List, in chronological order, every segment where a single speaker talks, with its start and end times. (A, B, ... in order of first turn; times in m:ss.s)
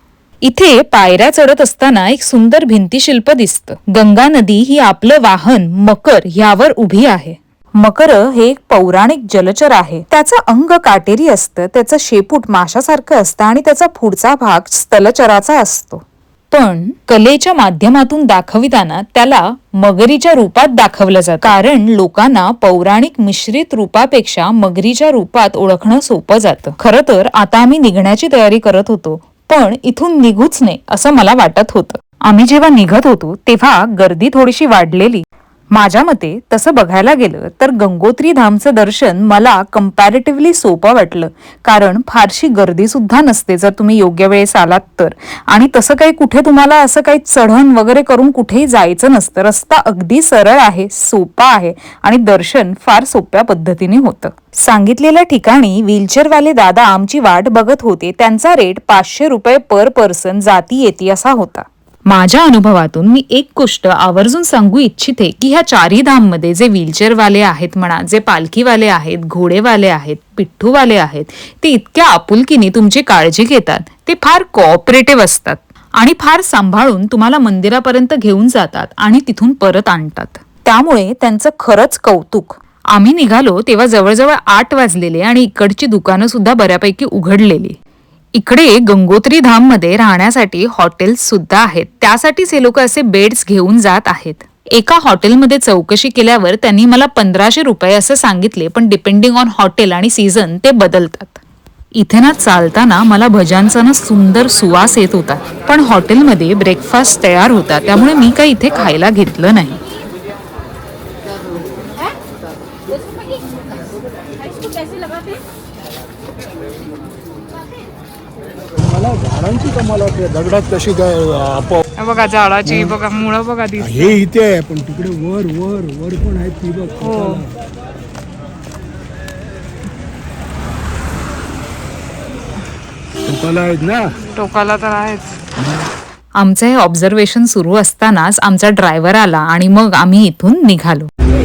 0:00.4-1:27.8 A
1:28.4-1:41.4 A
1:42.0-1:49.8 A
1:58.8-2:01.8 B
2:02.0-2:04.2 C
2:02.7-2:02.9 B
2:03.8-2:07.4 B
2:07.0-2:07.4 C
2:13.3-2:14.0 B
2:14.4-2:15.3 C
2:16.4-2:21.1 A